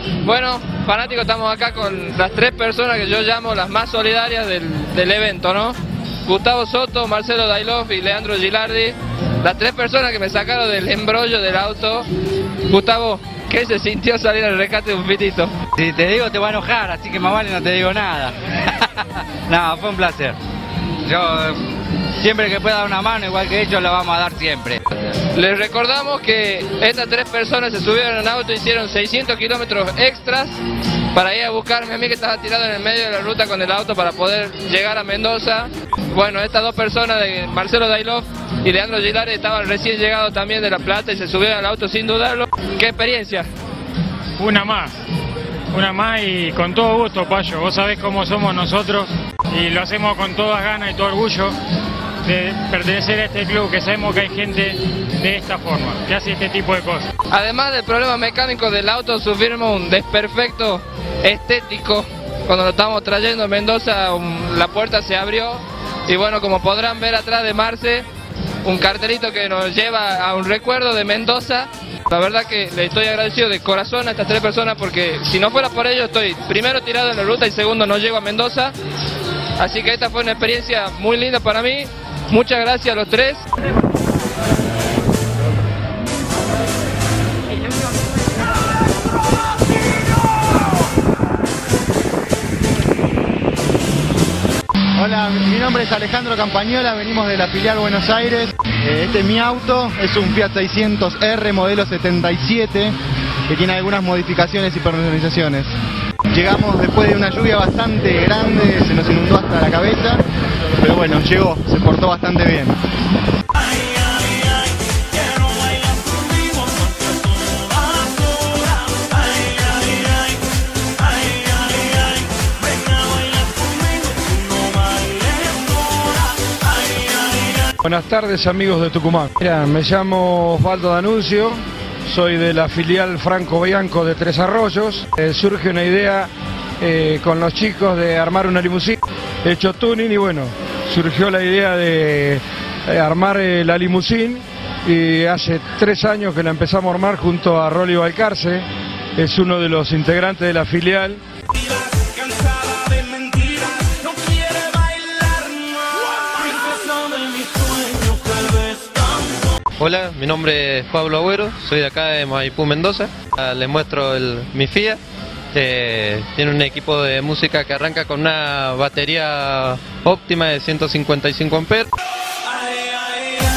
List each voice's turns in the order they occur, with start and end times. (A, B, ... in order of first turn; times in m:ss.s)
0:00.2-0:12.1 A
0:12.7-0:15.5 A
0:15.8-0:18.4 B
0:19.5-0:20.4 B
0:21.0-0:21.6 B
0:22.2-0:24.8 B
0:25.3-0:30.6 A
0:31.1-0:43.5 A
0:44.4-0:45.0 C
0:45.7-0:51.6 C
0:52.3-0:57.1 C
0:57.3-1:08.1 A
1:08.6-1:18.8 A
1:19.6-1:23.5 A
1:35.0-1:43.0 D
1:43.5-1:45.7 D
1:46.3-1:50.2 D
1:50.8-1:52.8 D
2:07.8-2:16.3 E
2:16.8-2:28.7 E
2:29.2-2:31.2 E
2:39.8-2:45.0 F
2:45.5-2:51.9 F